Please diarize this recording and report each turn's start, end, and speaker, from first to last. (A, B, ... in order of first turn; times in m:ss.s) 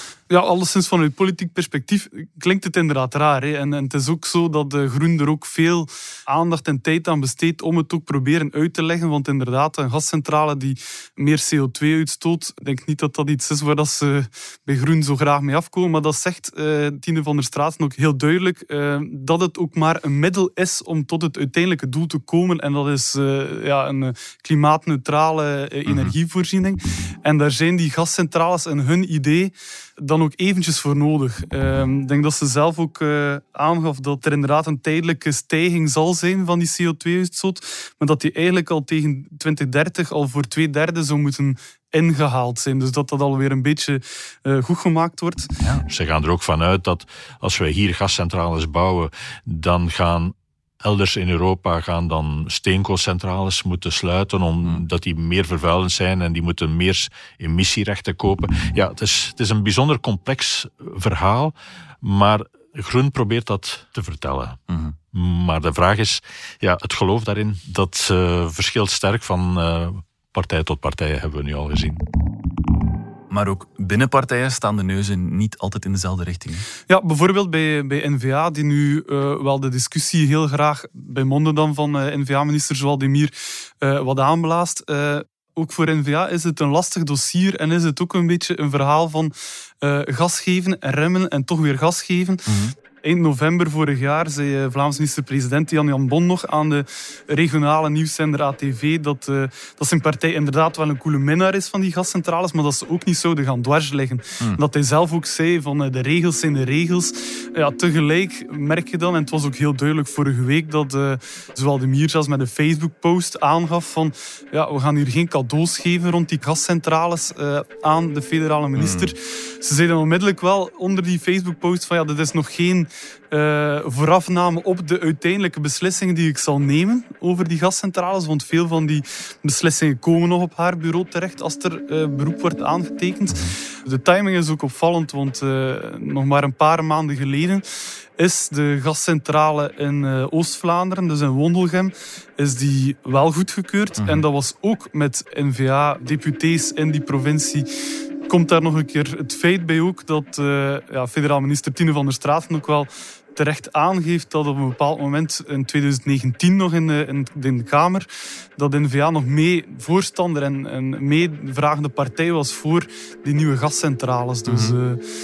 0:00.3-0:45.5 A
0:25.9-0:26.1 B
0:45.6-0:45.9 B
0:45.9-1:04.6 C
1:04.7-1:05.0 B
1:05.1-1:12.0 C
1:13.3-1:16.7 B
1:16.9-1:32.5 A
1:32.5-1:32.7 B
1:33.0-2:17.6 A
1:58.8-1:59.1 B
2:13.3-2:13.6 B
2:18.2-2:27.7 A
2:24.0-2:24.2 B
2:28.3-2:45.0 A
2:44.5-2:44.8 B